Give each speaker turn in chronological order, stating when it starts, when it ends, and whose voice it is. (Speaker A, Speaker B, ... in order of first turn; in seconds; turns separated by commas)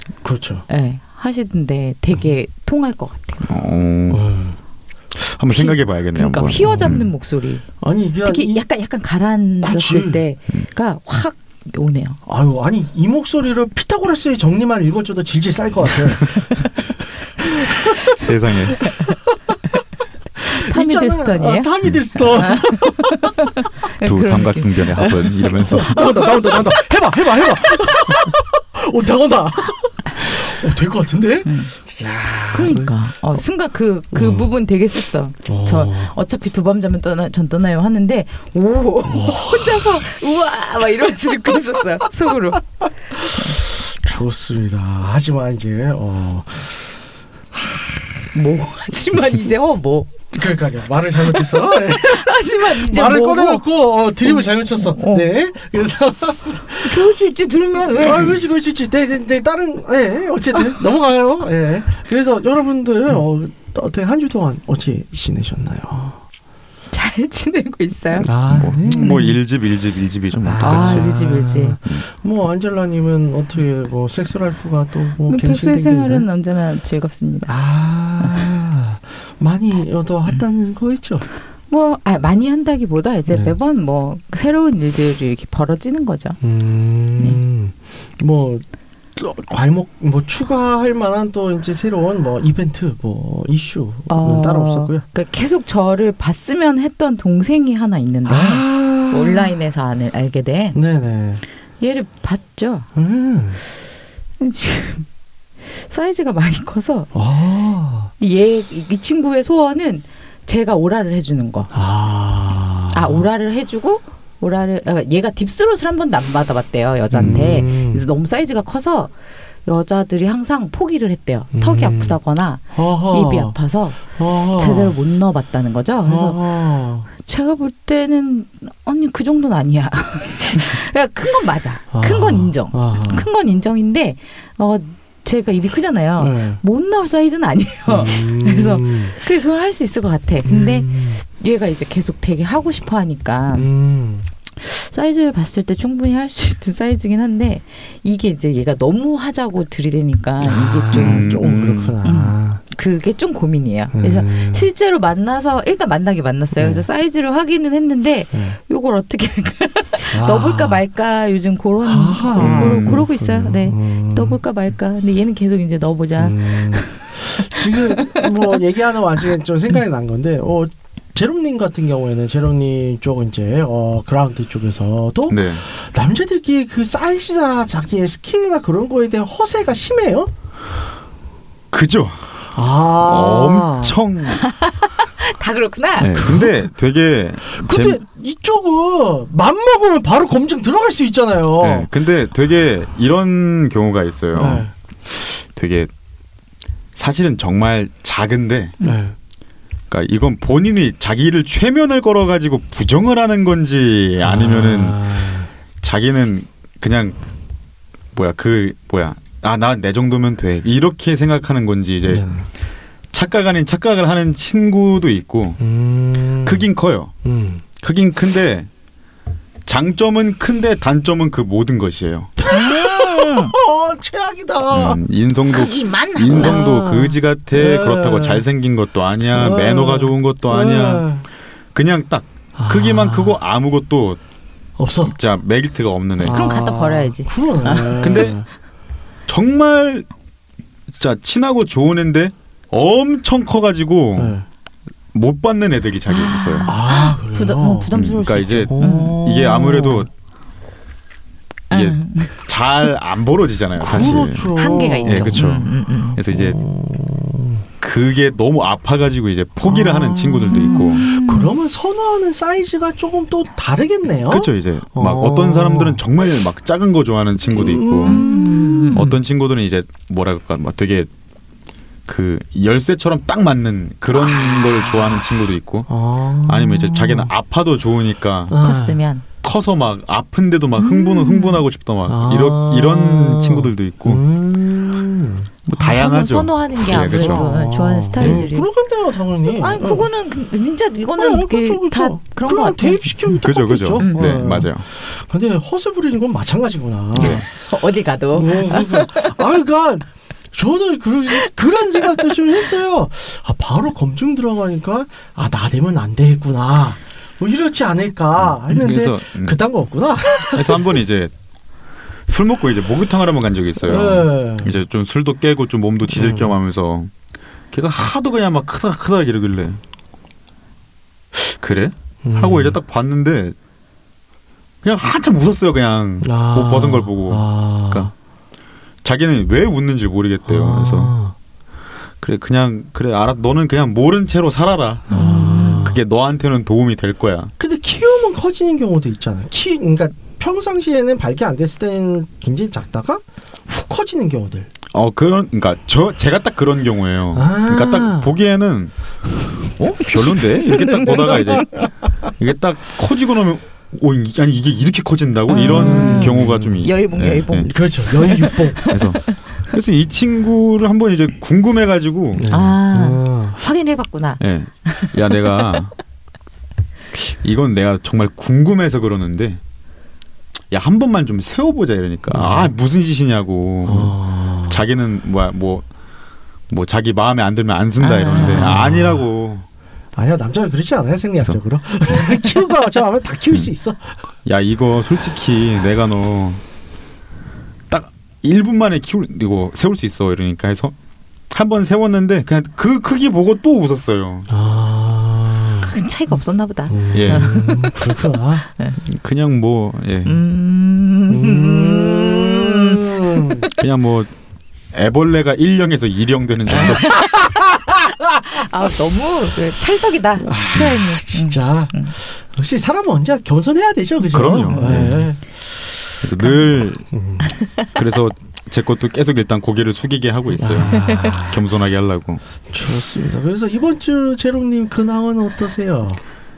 Speaker A: 0.2-0.7, Speaker B: 0.7-3.5, Speaker C: 3.5-4.2, Speaker A: 4.1-4.6, Speaker C: 5.1-7.1, Speaker B: 5.5-7.7, Speaker A: 6.6-7.0, Speaker A: 7.8-8.6, Speaker B: 8.2-12.2, Speaker A: 9.6-10.2, Speaker A: 12.3-16.7, Speaker A: 17.7-18.2, Speaker C: 18.0-18.8, Speaker B: 18.8-19.1, Speaker A: 20.5-23.3, Speaker B: 20.5-26.3, Speaker C: 24.0-26.3, Speaker A: 25.6-32.9, Speaker B: 31.4-31.8, Speaker B: 32.5-42.6, Speaker A: 34.1-34.5, Speaker A: 35.5-36.1, Speaker A: 39.0-40.0, Speaker A: 43.2-46.9, Speaker B: 48.3-50.3, Speaker A: 50.3-57.0, Speaker B: 51.3-53.6, Speaker B: 54.2-55.3, Speaker B: 56.8-58.4, Speaker A: 57.9-66.2, Speaker B: 66.9-68.3, Speaker A: 68.2-69.2, Speaker C: 68.5-71.1, Speaker B: 69.0-69.4, Speaker A: 70.4-76.3, Speaker B: 70.6-71.8, Speaker B: 75.3-77.5, Speaker A: 77.5-81.3, Speaker B: 81.7-86.4, Speaker A: 83.3-83.6, Speaker A: 86.4-88.7, Speaker A: 89.2-95.0, Speaker B: 94.1-100.8, Speaker A: 98.3-99.5, Speaker A: 100.7-101.4, Speaker B: 101.8-102.9, Speaker A: 103.0-103.6, Speaker B: 104.4-105.1, Speaker B: 105.6-107.1, Speaker A: 107.1-108.1, Speaker B: 108.2-111.7, Speaker A: 111.7-113.3, Speaker B: 112.9-119.1, Speaker A: 117.1-118.0, Speaker B: 119.7-126.4, Speaker A: 121.5-122.2, Speaker A: 122.7-125.0, Speaker A: 126.0-127.1, Speaker B: 127.1-143.7, Speaker A: 131.9-133.3, Speaker A: 136.2-136.6, Speaker A: 137.9-139.2, Speaker A: 140.5-141.2, Speaker A: 143.5-144.3, Speaker B: 144.6-151.4, Speaker A: 150.4-152.6, Speaker C: 150.9-151.9, Speaker B: 152.0-168.6, Speaker A: 153.9-154.7, Speaker A: 156.6-156.8, Speaker A: 158.3-158.6, Speaker A: 160.1-160.8, Speaker A: 161.8-164.4, Speaker C: 162.4-163.1, Speaker A: 166.2-180.3, Speaker C: 175.3-175.6, Speaker C: 181.7-182.3, Speaker A: 182.5-184.0, Speaker C: 183.0-184.4, Speaker B: 184.4-186.2, Speaker C: 186.0-188.0, Speaker A: 186.2-186.6, Speaker A: 187.5-191.9, Speaker C: 191.6-195.9, Speaker A: 194.3-194.7, Speaker C: 197.0-198.8, Speaker A: 198.8-199.2, Speaker C: 199.9-207.2, Speaker A: 204.2-205.5, Speaker C: 208.1-212.3, Speaker A: 212.1-212.5, Speaker C: 213.1-215.6, Speaker A: 215.6-216.7, Speaker C: 216.4-217.1, Speaker A: 217.2-217.6, Speaker C: 217.8-218.7, Speaker C: 219.7-222.3, Speaker A: 222.4-225.0, Speaker B: 222.5-223.5, Speaker C: 224.7-231.1, Speaker B: 225.5-227.1, Speaker A: 226.5-228.5, Speaker A: 229.3-231.2, Speaker C: 231.7-234.2, Speaker A: 232.6-233.4, Speaker A: 234.8-235.2, Speaker C: 235.0-236.4, Speaker A: 236.2-238.5, Speaker B: 236.3-238.2, Speaker C: 238.0-238.4, Speaker C: 239.3-240.1, Speaker C: 240.9-244.4, Speaker A: 244.2-244.4, Speaker C: 245.1-246.7, Speaker B: 246.1-249.2, Speaker A: 246.7-248.1, Speaker C: 247.9-250.1, Speaker A: 248.7-250.1, Speaker B: 251.7-252.9, Speaker C: 251.7-256.6, Speaker A: 253.8-257.7, Speaker B: 254.0-256.2, Speaker C: 257.8-261.1, Speaker A: 259.6-266.0, Speaker B: 260.5-261.5, Speaker C: 264.3-268.3, Speaker A: 267.5-269.0, Speaker B: 268.1-269.2, Speaker C: 268.9-271.1, Speaker C: 272.1-275.9, Speaker A: 275.9-277.3, Speaker C: 276.5-278.6, Speaker A: 278.5-279.0, Speaker B: 278.5-279.2, Speaker C: 279.4-284.2, Speaker B: 280.8-281.6, Speaker A: 282.1-285.5, Speaker C: 285.7-287.5, Speaker B: 285.7-288.7, Speaker A: 286.9-290.1, Speaker C: 288.2-288.5, Speaker B: 289.5-294.4, Speaker A: 291.2-297.5, Speaker C: 293.4-294.9, Speaker C: 297.1-297.5, Speaker B: 297.2-299.4, Speaker A: 298.3-311.0, Speaker B: 301.3-302.4, Speaker C: 308.4-309.6, Speaker C: 310.5-311.3, Speaker C: 312.3-317.1, Speaker A: 313.8-314.8, Speaker A: 316.1-316.6, Speaker C: 317.7-319.8, Speaker C: 321.3-323.6, Speaker A: 322.2-322.8, Speaker C: 324.8-328.1, Speaker A: 326.2-328.1, Speaker C: 329.0-331.1, Speaker A: 330.5-331.4, Speaker C: 332.2-335.2, Speaker A: 335.1-336.0, Speaker B: 335.1-335.9, Speaker C: 335.8-337.5, Speaker A: 337.6-344.7, Speaker C: 344.9-348.9, Speaker A: 347.3-348.3, Speaker C: 349.7-357.7, Speaker A: 351.0-351.5, Speaker B: 355.5-359.3, Speaker A: 355.6-356.8, Speaker A: 357.6-358.9, Speaker C: 358.9-362.4, Speaker A: 362.3-363.6, Speaker B: 362.5-365.1, Speaker C: 364.4-365.9, Speaker C: 367.1-369.6, Speaker C: 370.7-375.9, Speaker A: 372.3-372.7, Speaker A: 373.9-374.8, Speaker C: 376.7-379.6, Speaker B: 378.0-378.8, Speaker A: 378.4-379.2, Speaker A: 380.1-384.2, Speaker C: 384.4-386.6, Speaker C: 387.9-390.9, Speaker C: 391.5-394.5, Speaker A: 394.5-396.0, Speaker B: 395.8-398.2, Speaker A: 396.9-398.7, Speaker C: 397.1-397.6, Speaker C: 399.1-400.4, Speaker B: 400.2-403.8, Speaker A: 401.3-403.7, Speaker C: 403.8-404.3, Speaker C: 404.9-407.2, Speaker A: 406.7-408.1, Speaker B: 406.9-407.6, Speaker B: 408.4-412.1, Speaker A: 410.4-415.4, Speaker C: 414.3-415.3, Speaker B: 414.7-415.2, Speaker C: 416.2-417.1, Speaker B: 416.4-416.6, Speaker A: 417.1-417.5, Speaker B: 417.4-417.9, Speaker C: 417.9-422.4, Speaker A: 420.6-421.7, Speaker A: 422.7-426.2